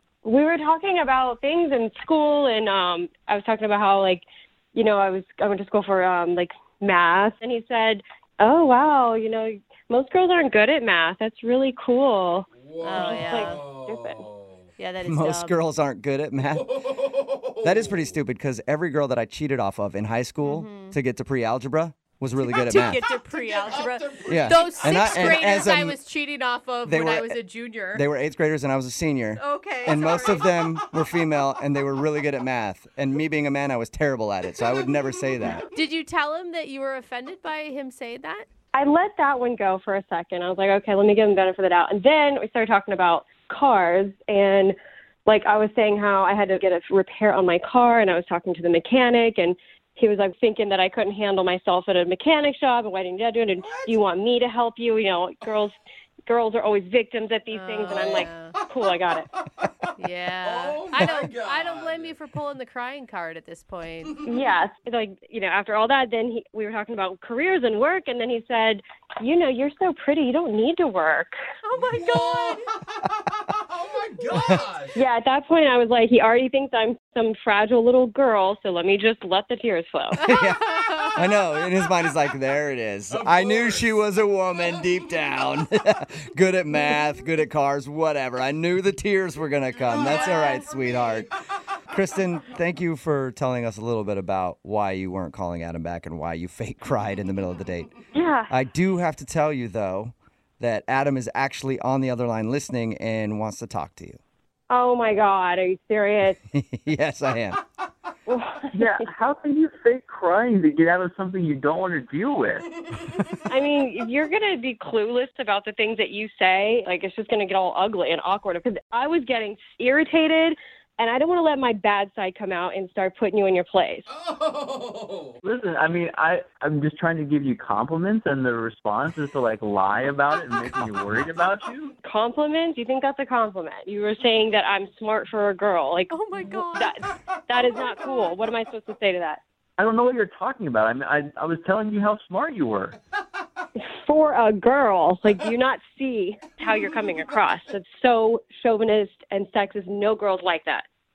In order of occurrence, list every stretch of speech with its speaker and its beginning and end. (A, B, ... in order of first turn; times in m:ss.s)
0:00.2-0:14.2 A
0:12.6-0:14.7 B
0:12.8-0:13.6 C
0:14.8-0:15.6 C
0:15.0-0:17.0 D
0:16.5-0:18.2 B
0:17.6-0:23.0 D
0:20.4-0:21.0 C
0:22.4-0:28.0 C
0:23.2-0:25.5 B
0:24.3-0:26.0 D
0:26.8-0:27.4 D
0:27.9-0:35.6 D
0:29.4-0:30.5 C
0:34.6-0:34.9 B
0:35.7-0:38.5 C
0:38.7-0:59.3 A
0:53.6-0:54.0 B
0:57.5-0:58.6 C
0:58.0-0:58.3 B
1:00.0-1:04.3 C
1:00.4-1:02.2 B
1:04.2-1:11.3 A
1:11.7-1:12.6 C
1:11.8-1:15.0 B
1:14.3-1:14.6 D
1:15.0-1:20.3 A
1:20.1-1:31.3 D
1:20.2-1:21.4 C
1:23.1-1:23.9 B
1:29.8-1:31.3 B
1:31.9-1:37.9 D
1:38.1-1:38.5 A
1:38.5-1:44.2 D
1:44.7-1:46.4 A
1:46.5-1:47.6 D
1:48.3-1:49.0 A
1:48.7-1:52.7 E
1:53.5-2:04.1 A
2:04.1-2:05.4 B
2:05.4-2:11.9 E
2:12.0-2:16.2 A
2:16.1-2:16.9 C
2:16.7-2:19.4 A
2:19.8-2:23.0 E
2:23.9-2:30.8 A